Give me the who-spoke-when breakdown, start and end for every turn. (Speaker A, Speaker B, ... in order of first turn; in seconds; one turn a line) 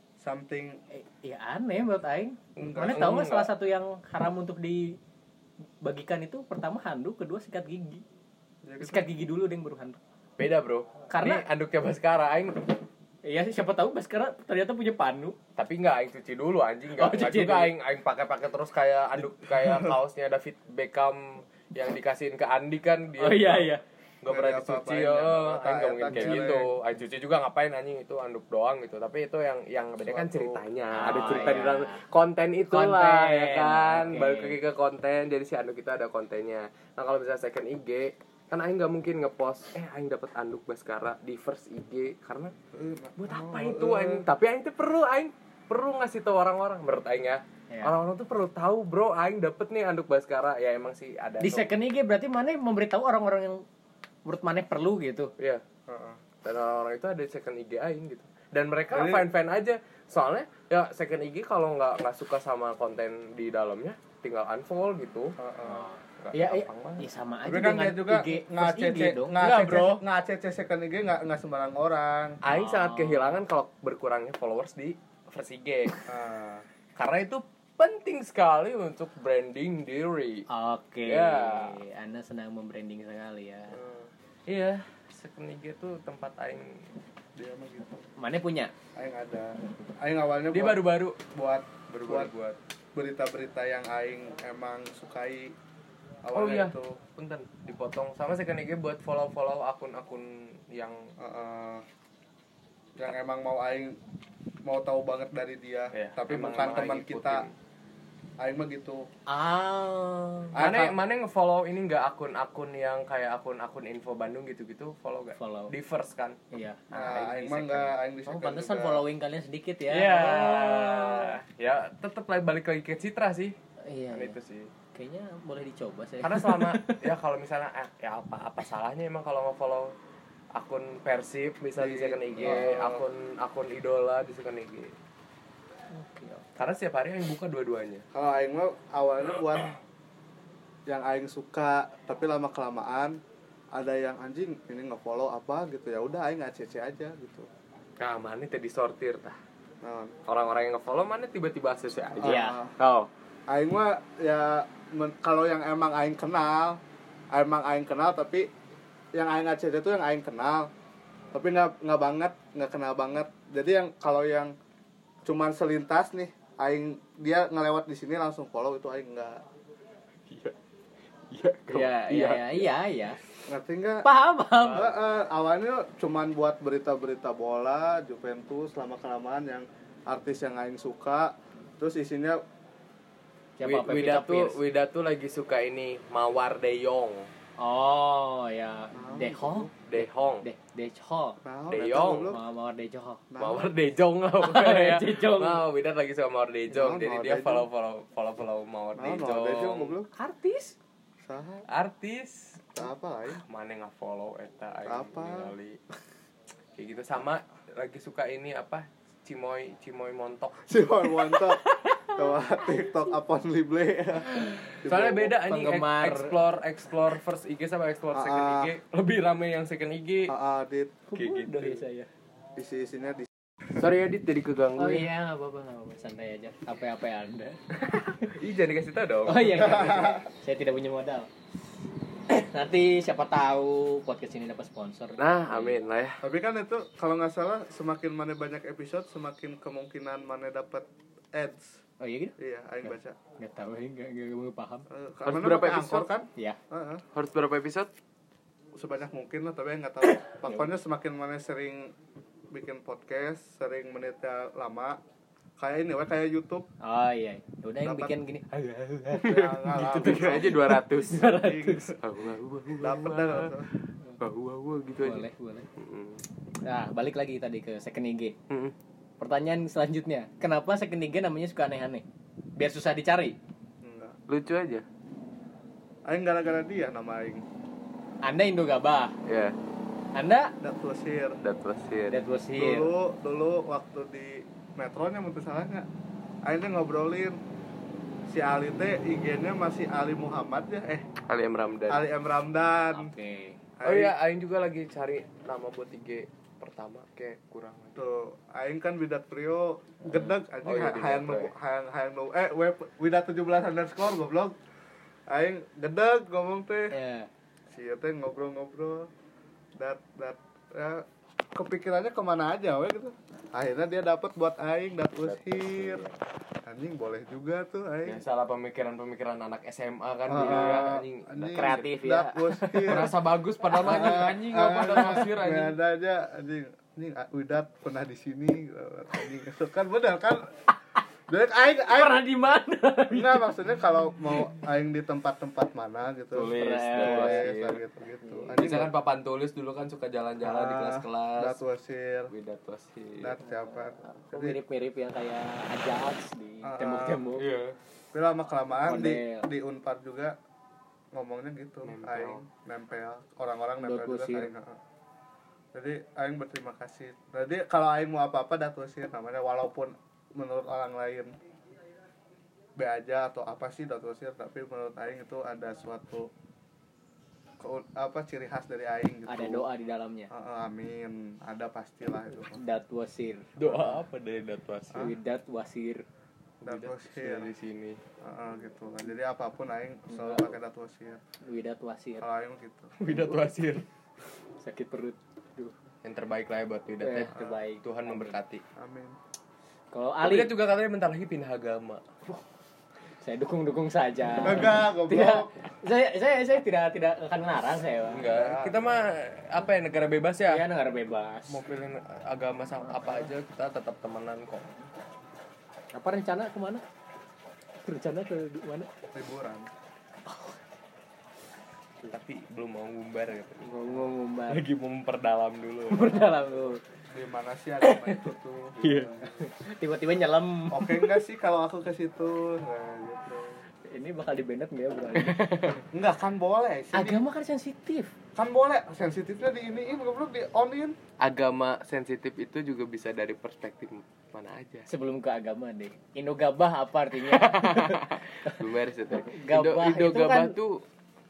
Speaker A: 0.2-0.8
Speaker B: 0.9-5.0
Speaker A: 2.6-3.1
Speaker C: 2.6-3.5
Speaker B: 5.8-8.0
Speaker A: 8.6-9.1
Speaker B: 8.8-10.0
Speaker C: 10.4-12.8
Speaker B: 11.1-11.4
Speaker B: 13.2-15.4
Speaker C: 15.6-23.7
Speaker B: 17.0-17.7
Speaker A: 19.5-20.0
Speaker B: 23.2-23.8
Speaker C: 24.2-42.5
Speaker A: 24.3-26.7
Speaker B: 26.1-26.4
Speaker A: 30.0-30.6
Speaker B: 30.9-32.0
Speaker B: 32.7-34.6
Speaker A: 42.7-44.3
Speaker C: 43.2-51.7
Speaker B: 51.4-53.6
Speaker B: 54.3-55.3
Speaker A: 55.9-56.2
Speaker C: 56.4-65.4
Speaker A: 58.9-59.3
Speaker A: 65.4-65.9
Speaker B: 65.6-70.0
Speaker C: 66.2-67.1
Speaker A: 67.5-72.4
Speaker C: 72.4-76.0
Speaker B: 72.5-73.4
Speaker A: 76.1-76.7
Speaker C: 77.0-80.5
Speaker B: 80.5-83.8
Speaker C: 81.1-81.8
Speaker A: 83.8-84.1
Speaker C: 84.5-86.8
Speaker A: 87.4-88.1
Speaker B: 88.2-88.7
Speaker A: 89.0-92.3
Speaker C: 90.5-91.2
Speaker C: 91.9-92.6
Speaker A: 93.0-95.5
Speaker A: 96.2-97.0
Speaker C: 96.3-101.1
Speaker A: 101.2-101.8
Speaker A: 103.0-104.0
Speaker A: 104.7-107.5
Speaker C: 105.9-107.5
Speaker A: 108.4-109.0
Speaker B: 109.3-110.6
Speaker A: 110.5-111.0
Speaker C: 110.6-116.4
Speaker B: 115.4-115.7
Speaker B: 116.5-121.3
Speaker A: 116.9-119.0
Speaker C: 119.9-123.5
Speaker B: 123.8-124.4
Speaker C: 124.1-124.7
Speaker B: 124.9-127.0
Speaker C: 126.2-129.9
Speaker C: 130.6-135.0
Speaker A: 131.8-133.1
Speaker B: 135.9-136.5
Speaker C: 136.6-138.1
Speaker A: 138.1-139.7
Speaker A: 140.9-143.2
Speaker A: 143.7-147.5
Speaker C: 148.0-149.4
Speaker A: 149.8-150.2
Speaker C: 150.3-152.5
Speaker A: 152.2-152.7
Speaker B: 152.2-153.1
Speaker A: 153.5-156.8
Speaker A: 157.3-158.5
Speaker A: 159.1-160.7
Speaker A: 161.3-164.6
Speaker A: 165.2-169.4
Speaker C: 170.3-170.6
Speaker C: 171.3-172.7
Speaker B: 171.7-173.2
Speaker A: 173.5-174.1
Speaker B: 174.0-174.9
Speaker C: 174.6-175.0
Speaker A: 174.7-182.4
Speaker B: 183.6-184.6
Speaker C: 183.6-187.3
Speaker B: 187.6-191.4
Speaker A: 188.9-189.7
Speaker C: 189.8-190.4
Speaker A: 191.4-192.4
Speaker C: 191.7-192.3
Speaker B: 192.3-193.2
Speaker A: 193.3-193.7
Speaker C: 193.4-199.9
Speaker B: 194.4-195.6
Speaker A: 196.7-197.7
Speaker A: 199.0-200.1
Speaker B: 200.1-200.8
Speaker A: 201.2-201.7
Speaker C: 201.7-202.6
Speaker A: 202.8-203.4
Speaker C: 203.4-205.8
Speaker A: 204.9-205.6
Speaker C: 206.8-210.8
Speaker A: 210.7-215.4
Speaker B: 211.8-212.1
Speaker C: 214.4-220.3
Speaker B: 215.4-216.4
Speaker A: 218.1-218.8
Speaker A: 220.3-221.0
Speaker B: 221.1-222.1
Speaker C: 221.2-221.8
Speaker A: 222.6-223.3
Speaker C: 223.7-225.1
Speaker B: 224.8-227.6
Speaker C: 227.7-229.9
Speaker B: 229.3-231.3
Speaker A: 229.6-230.3
Speaker B: 232.3-235.8
Speaker C: 235.2-236.2
Speaker A: 236.2-241.8
Speaker B: 242.0-244.9
Speaker A: 242.4-243.2
Speaker A: 244.9-247.0
Speaker C: 245.3-246.1
Speaker C: 247.1-247.9
Speaker A: 248.8-251.9
Speaker B: 250.0-250.7
Speaker A: 252.5-255.0
Speaker A: 255.6-256.7
Speaker B: 256.8-261.9
Speaker A: 257.8-258.1
Speaker C: 259.2-261.3
Speaker A: 259.2-260.8
Speaker A: 261.3-261.9
Speaker C: 262.0-263.6
Speaker A: 262.8-263.7
Speaker C: 264.2-266.2
Speaker B: 265.0-265.7
Speaker B: 266.6-268.4
Speaker C: 268.5-268.8
Speaker B: 269.2-273.4
Speaker A: 273.8-274.2
Speaker C: 274.3-274.9
Speaker A: 276.1-277.4
Speaker B: 278.2-279.2
Speaker C: 279.2-279.6
Speaker B: 280.1-280.5
Speaker A: 280.6-281.4
Speaker C: 281.4-282.2
Speaker B: 282.1-282.9
Speaker A: 282.6-285.9
Speaker A: 286.4-287.4
Speaker A: 288.3-291.1
Speaker C: 291.3-292.1
Speaker A: 291.9-293.1
Speaker B: 292.9-293.6
Speaker A: 293.8-294.1
Speaker C: 293.8-298.0
Speaker A: 298.0-304.6
Speaker C: 300.6-301.5
Speaker A: 305.3-307.0
Speaker B: 306.9-307.3
Speaker A: 307.7-309.1
Speaker A: 309.8-316.1
Speaker B: 315.4-316.1
Speaker A: 316.6-318.2
Speaker C: 318.1-321.9
Speaker A: 320.3-323.1
Speaker B: 320.4-320.7
Speaker B: 321.5-323.1
Speaker C: 322.8-325.8
Speaker A: 323.8-330.5
Speaker B: 323.9-324.1
Speaker A: 331.3-332.2
Speaker B: 331.9-333.5
Speaker A: 333.1-338.9
Speaker C: 336.3-337.8
Speaker B: 336.4-337.7
Speaker B: 338.2-338.6
Speaker C: 338.6-341.6
Speaker A: 340.4-342.3
Speaker C: 342.3-343.4
Speaker A: 343.2-344.6
Speaker B: 343.4-347.4
Speaker A: 346.6-347.3
Speaker C: 347.4-347.8
Speaker A: 348.1-350.4
Speaker B: 348.9-349.5
Speaker A: 351.1-354.8
Speaker C: 351.8-352.4
Speaker B: 353.8-354.5
Speaker A: 355.7-361.3
Speaker A: 362.8-366.3
Speaker A: 367.6-369.7
Speaker B: 369.3-370.3
Speaker A: 370.3-372.6
Speaker B: 372.5-374.0
Speaker C: 373.6-375.1
Speaker B: 374.9-376.1
Speaker C: 376.6-378.0
Speaker A: 376.6-377.5
Speaker A: 378.2-381.2
Speaker B: 380.1-380.5
Speaker B: 381.4-382.2
Speaker A: 382.2-382.9
Speaker C: 383.0-383.8
Speaker B: 383.1-383.4
Speaker B: 384.6-385.7
Speaker C: 386.0-388.6
Speaker B: 387.0-388.4
Speaker A: 387.3-387.6
Speaker A: 388.8-389.2
Speaker B: 389.9-390.5
Speaker C: 390.2-392.3
Speaker B: 393.2-398.3
Speaker A: 394.4-395.5
Speaker C: 398.1-400.6
Speaker A: 398.2-399.1
Speaker B: 400.5-401.6
Speaker C: 401.5-404.8
Speaker B: 405.9-406.8
Speaker B: 407.8-408.9
Speaker A: 409.1-409.7
Speaker B: 410.2-410.6
Speaker C: 412.1-413.9
Speaker B: 413.6-414.6
Speaker C: 414.5-416.4
Speaker B: 415.9-416.8
Speaker A: 417.1-419.4
Speaker B: 417.8-418.2
Speaker C: 418.8-419.1
Speaker B: 418.9-421.2
Speaker A: 420.7-423.6
Speaker B: 423.9-425.8
Speaker C: 425.1-425.8
Speaker A: 425.9-427.2
Speaker B: 426.9-428.1
Speaker A: 428.4-431.0
Speaker C: 431.2-434.9
Speaker B: 434.9-438.6
Speaker C: 437.2-440.8
Speaker B: 439.2-440.6